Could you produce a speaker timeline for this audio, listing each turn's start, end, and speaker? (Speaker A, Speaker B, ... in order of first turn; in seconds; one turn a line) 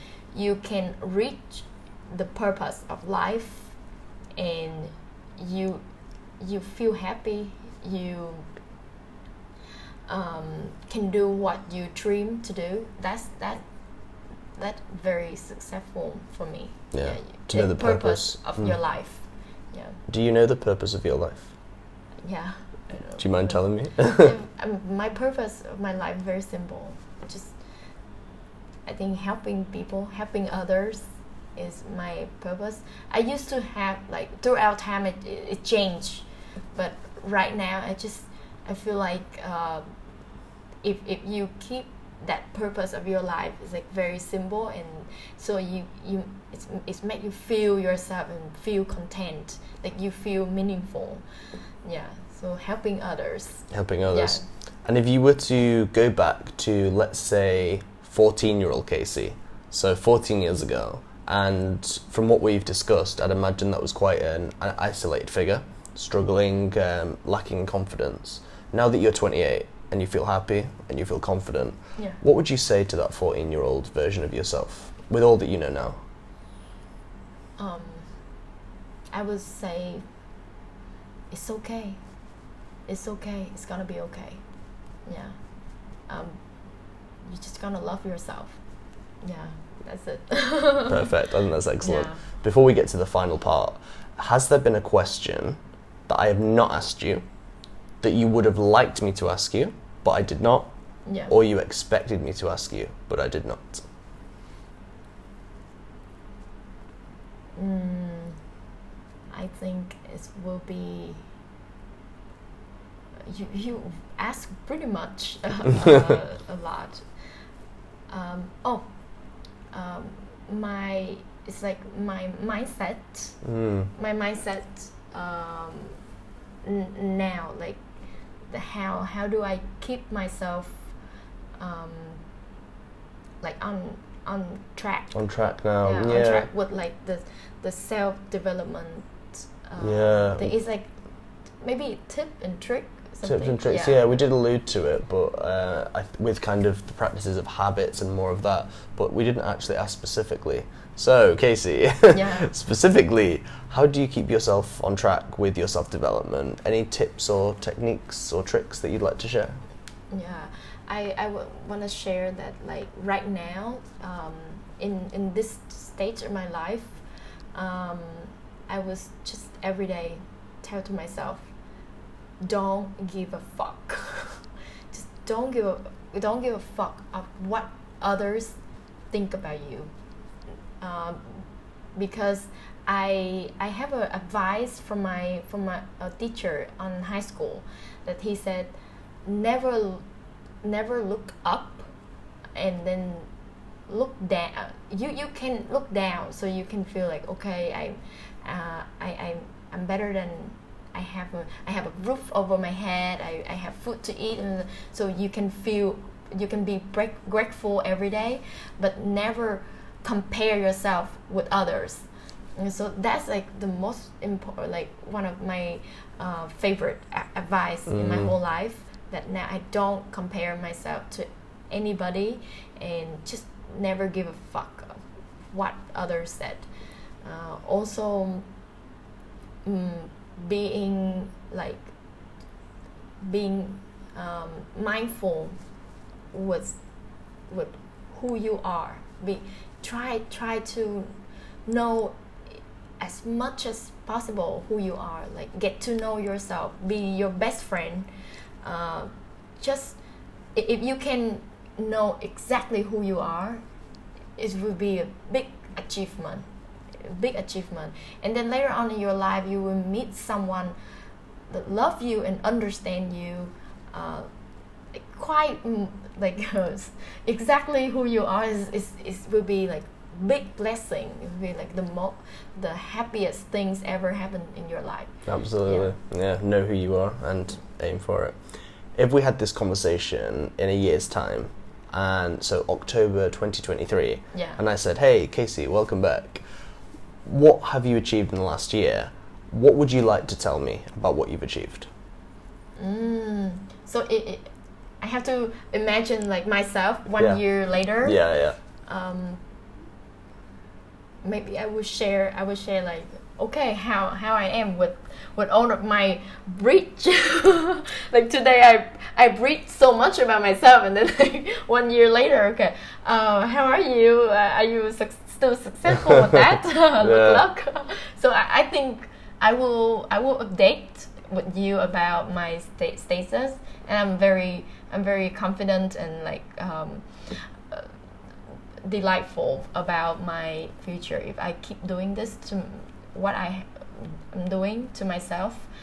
Speaker A: 0.3-3.7
Speaker A: 4.3-5.8
Speaker A: 6.4-8.5
Speaker A: 10.1-13.6
Speaker A: 14.6-20.0
Speaker B: 16.9-18.8
Speaker B: 20.1-21.5
Speaker A: 22.2-27.5
Speaker B: 23.2-24.3
Speaker A: 28.9-39.8
Speaker A: 40.8-51.2
Speaker A: 51.8-54.4
Speaker B: 53.7-76.0
Speaker A: 77.6-78.1
Speaker A: 79.1-80.0
Speaker A: 81.3-82.0
Speaker A: 82.9-84.4
Speaker A: 85.0-85.4
Speaker A: 86.1-86.4
Speaker A: 87.2-88.6
Speaker A: 89.2-91.2
Speaker B: 90.9-97.2
Speaker A: 91.8-92.2
Speaker B: 98.0-100.7
Speaker A: 101.0-101.3
Speaker B: 101.3-103.8
Speaker A: 107.5-108.4
Speaker A: 109.3-111.2
Speaker A: 113.2-117.0
Speaker A: 118.1-118.9
Speaker A: 119.7-123.4
Speaker B: 123.4-123.9
Speaker A: 124.0-126.0
Speaker A: 126.6-127.8
Speaker A: 128.5-130.9
Speaker A: 131.6-132.2
Speaker A: 133.4-135.2
Speaker B: 135.1-136.5
Speaker A: 135.8-140.9
Speaker B: 139.8-140.5
Speaker A: 141.6-144.1
Speaker B: 143.2-159.6
Speaker A: 152.1-152.5
Speaker A: 160.1-167.0
Speaker A: 167.5-171.5
Speaker A: 172.4-178.6
Speaker A: 179.1-179.9
Speaker A: 180.8-190.0
Speaker A: 190.6-191.9
Speaker A: 192.6-193.3
Speaker A: 193.9-226.7
Speaker B: 217.9-218.3
Speaker A: 227.2-228.5
Speaker A: 229.6-231.9
Speaker A: 233.2-235.6
Speaker A: 236.3-236.8
Speaker A: 237.5-241.1
Speaker A: 241.7-248.1
Speaker A: 248.6-250.0
Speaker A: 250.5-253.6
Speaker A: 254.4-256.4
Speaker A: 257.0-260.7
Speaker A: 261.5-264.3
Speaker A: 264.9-275.1
Speaker B: 275.2-278.4
Speaker A: 275.6-275.9
Speaker B: 278.9-286.4
Speaker A: 284.3-284.6
Speaker B: 287.2-291.9
Speaker A: 292.8-294.5
Speaker A: 295.0-298.2
Speaker B: 297.2-297.4
Speaker B: 298.0-298.6
Speaker A: 298.9-299.4
Speaker A: 301.2-327.9
Speaker B: 316.1-316.4
Speaker B: 317.0-317.4
Speaker A: 328.8-335.7